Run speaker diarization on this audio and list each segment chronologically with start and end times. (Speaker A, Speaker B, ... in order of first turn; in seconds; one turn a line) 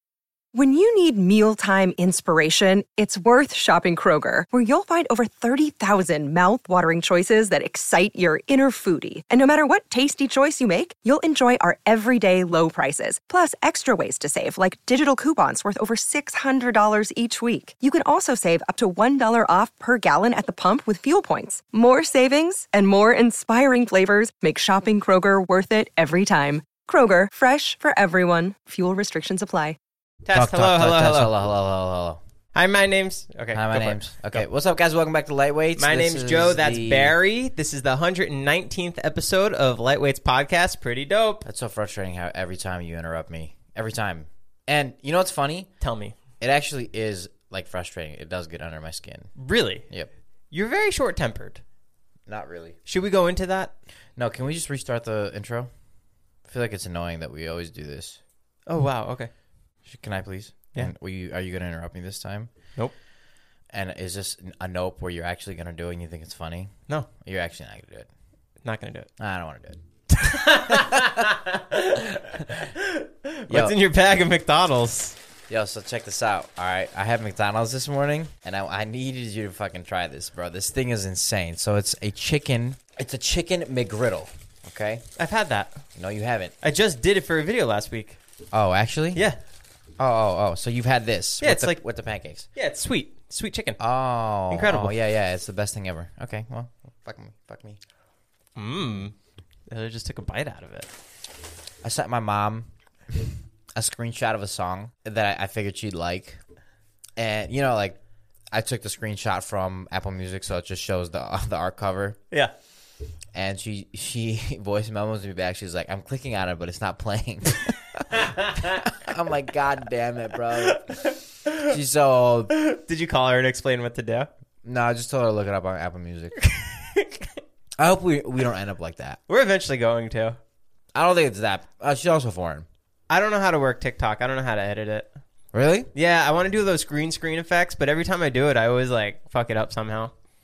Speaker A: 0.5-29.8
Speaker B: 30.2-31.3
Speaker C: 30.3-32.2
Speaker B: 32.5-34.4
Speaker C: 33.5-37.1
Speaker B: 35.8-41.4
Speaker C: 41.5-45.7
Speaker B: 45.8-46.1
Speaker C: 46.4-49.3
Speaker B: 49.4-49.9
Speaker B: 50.5-51.6
Speaker C: 52.3-52.8
Speaker B: 52.9-53.7
Speaker C: 54.2-55.7
Speaker C: 56.5-58.2
Speaker B: 58.7-59.3
Speaker C: 59.9-62.5
Speaker C: 63.7-68.1
Speaker B: 68.6-69.1
Speaker C: 69.2-69.8
Speaker B: 70.1-75.2
Speaker C: 70.5-71.2
Speaker C: 72.3-72.7
Speaker C: 73.5-73.8
Speaker C: 75.5-85.0
Speaker B: 85.2-85.8
Speaker C: 86.0-86.5
Speaker B: 86.6-88.2
Speaker C: 88.5-89.2
Speaker C: 90.0-92.5
Speaker B: 91.4-91.8
Speaker B: 92.6-93.8
Speaker C: 93.8-97.8
Speaker B: 94.5-95.0
Speaker B: 98.6-99.1
Speaker B: 99.7-100.9
Speaker C: 101.8-106.4
Speaker C: 107.2-108.0
Speaker C: 108.5-112.2
Speaker C: 113.3-120.9
Speaker B: 118.1-118.9
Speaker B: 120.5-121.7
Speaker C: 121.6-122.5
Speaker B: 122.5-124.3
Speaker C: 124.6-126.3
Speaker B: 126.5-127.2
Speaker C: 127.8-129.2
Speaker B: 129.3-130.4
Speaker C: 130.9-132.7
Speaker B: 133.1-135.1
Speaker C: 135.5-135.9
Speaker B: 135.9-140.1